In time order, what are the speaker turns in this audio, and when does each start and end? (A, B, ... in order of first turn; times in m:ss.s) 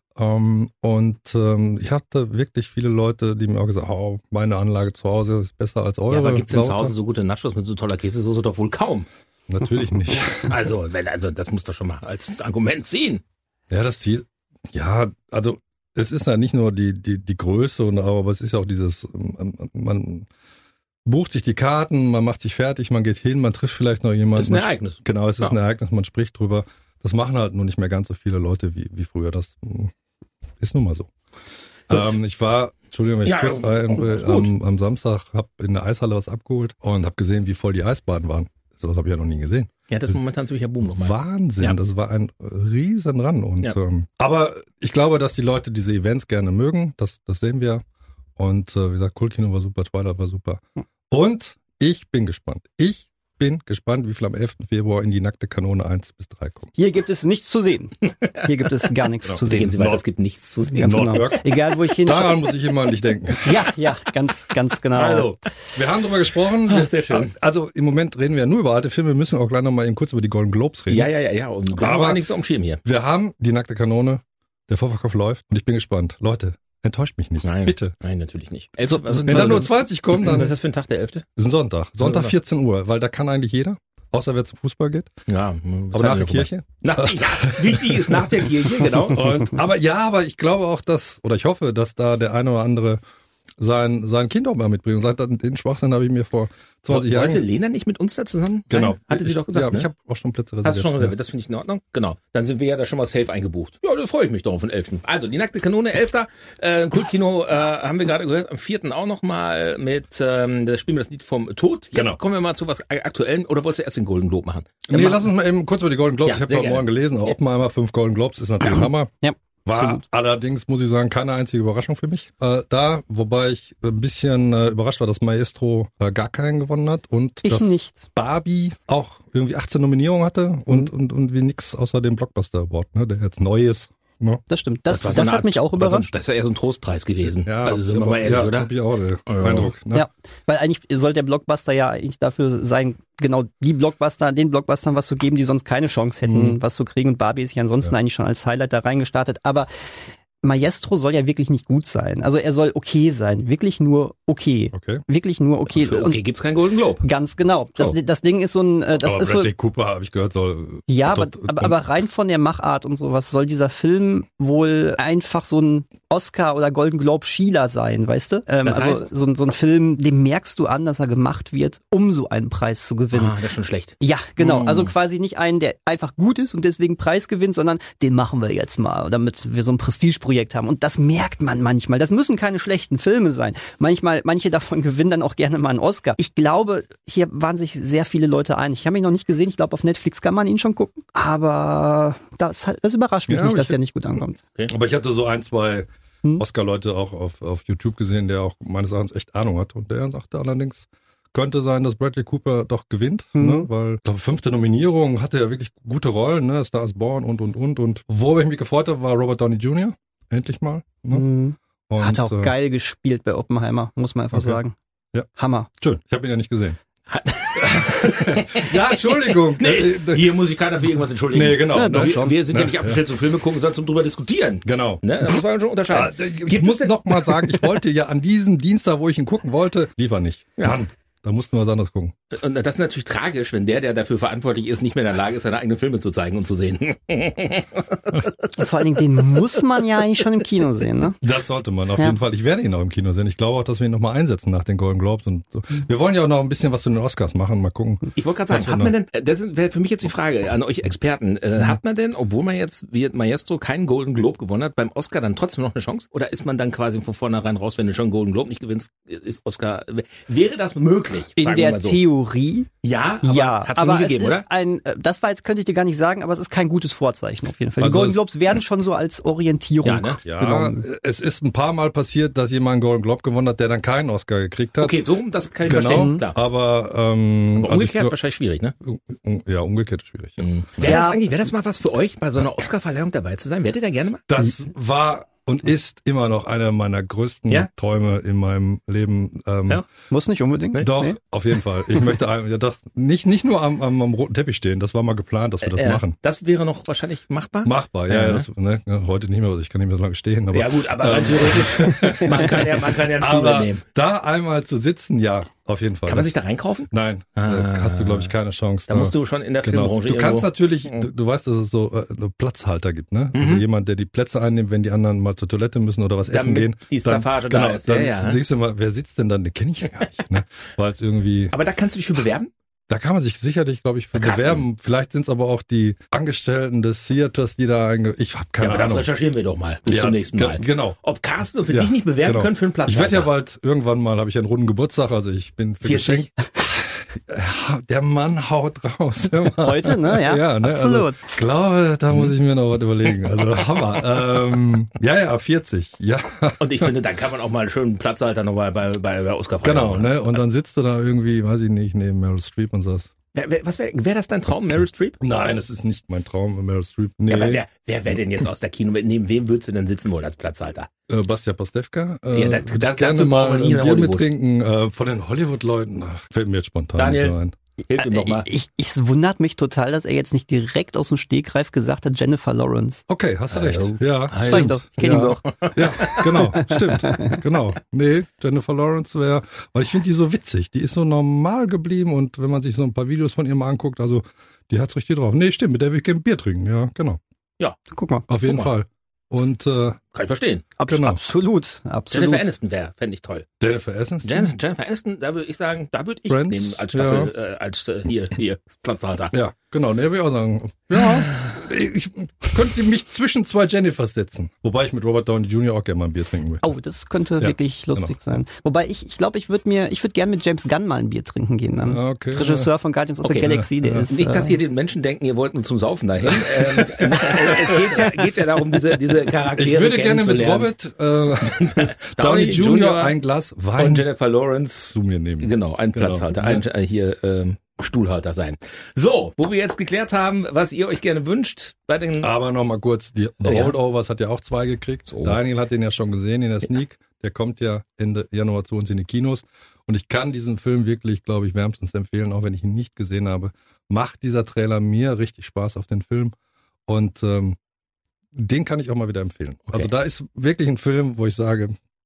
0:00.2-0:06.9 A
0:06.1-0:09.1 B
0:09.5-0:10.5 A
0:10.3-0:13.2 B
0:13.7-0:20.3 A
0:21.0-0:29.9 A
0:24.4-0:25.6 B
0:30.6-0:31.1 A
0:31.9-0:40.2 A
0:33.2-0:34.5 B
0:39.9-0:41.8 B
0:41.0-0:47.8 A
0:48.4-0:56.7 A
0:56.8-0:59.8 C
0:59.2-1:00.0 A
0:59.4-1:01.4 B
1:00.7-1:02.4 C
1:00.8-1:01.4 A
1:02.0-1:03.6 A
1:03.4-1:05.3 C
1:04.9-1:11.1 A
1:06.7-1:07.3 B
1:10.9-1:12.8 B
1:11.7-1:12.2 A
1:12.8-1:18.0 A
1:17.4-1:21.2 B
1:19.1-1:20.5 A
1:21.4-1:25.1 A
1:22.0-1:22.3 B
1:25.3-1:29.4 B
1:25.9-1:33.0 A
1:33.6-1:37.4 A
1:36.9-1:39.9 B
1:38.7-1:41.1 A
1:40.6-1:55.1 B
1:54.9-1:59.1 A
1:56.2-1:56.9 B
1:59.2-2:00.0 C
1:59.6-2:14.4 A
2:07.4-2:08.1 C
2:14.5-2:16.0 C
2:14.9-2:18.7 B
2:17.4-2:20.1 A
2:19.2-2:19.7 B
2:19.9-2:29.7 C
2:26.2-2:26.6 A
2:30.4-2:36.2 C
2:34.7-2:35.0 A
2:35.7-2:37.0 B
2:37.0-2:39.5 C
2:39.0-2:41.8 A
2:40.9-2:53.4 C
2:48.6-2:49.1 B
2:53.1-2:54.9 B
2:54.0-3:14.4 C
3:13.3-3:13.8 A
3:14.7-3:31.2 A
3:23.4-3:23.7 C
3:31.1-3:34.8 C
3:31.9-3:32.5 A
3:34.3-3:34.6 A
3:35.4-3:35.7 C
3:35.8-3:36.8 A
3:37.1-3:47.6 B
3:37.6-3:40.3 A
3:41.3-3:43.0 A
3:41.7-3:42.4 C
3:44.6-3:45.3 A
3:45.9-3:52.1 A
3:52.3-3:58.1 B
3:58.5-4:01.2 C
4:01.2-4:08.9 A
4:08.2-4:22.0 B
4:21.4-4:22.7 C
4:22.8-4:24.4 B
4:23.2-4:30.8 C
4:27.8-4:28.2 A
4:29.8-4:30.2 B
4:30.2-4:35.0 A
4:34.8-4:36.4 B
4:35.6-4:38.1 A
4:35.7-4:36.2 C
4:37.6-4:38.7 B
4:38.8-4:40.9 A
4:40.4-4:44.2 B
4:40.8-4:41.4 C
4:44.3-4:49.8 A
4:50.1-4:51.2 C
4:50.8-4:56.1 A
4:55.6-4:58.4 B
4:57.6-5:06.3 A
5:00.5-5:03.8 B
5:06.1-5:08.3 B
5:06.9-5:21.5 A
5:08.9-5:11.0 B
5:13.3-5:13.6 B
5:16.3-5:18.4 B
5:21.5-5:22.5 B
5:22.9-5:29.1 A
5:24.1-5:24.6 B
5:28.6-5:33.3 B
5:29.9-5:31.0 A
5:31.7-5:46.9 A
5:35.8-5:36.3 B
5:39.6-5:41.3 C
5:46.6-5:50.4 B
5:49.6-5:53.1 A
5:53.3-5:55.2 B
5:55.2-5:57.6 A
5:57.3-6:00.9 B
6:01.1-6:07.5 A
6:02.3-6:04.3 B
6:07.0-6:07.3 B
6:07.9-6:08.5 B
6:08.0-6:13.0 C
6:13.1-6:27.2 A
6:13.5-6:16.6 B
6:14.4-6:15.4 C
6:16.6-6:17.4 C
6:27.9-6:28.2 C
6:28.3-6:30.0 A
6:30.1-6:30.7 B
6:30.8-6:32.5 C
6:30.9-6:31.2 A
6:32.1-6:33.5 B
6:33.6-6:34.5 A
6:34.2-6:39.3 B
6:36.3-6:37.3 A
6:39.3-6:46.6 A
6:46.6-6:54.6 C
6:47.4-6:48.1 A
6:51.8-6:52.7 A
6:53.2-6:53.5 B
6:53.4-6:54.1 A
6:54.1-7:00.7 B
6:56.2-6:58.0 A
6:59.6-7:04.0 A
7:01.4-7:03.2 B
7:03.8-7:12.3 B
7:04.9-7:06.6 A
7:12.2-7:26.3 A
7:13.4-7:13.7 B
7:15.1-7:15.4 B
7:26.9-7:27.6 A
7:28.3-7:31.8 A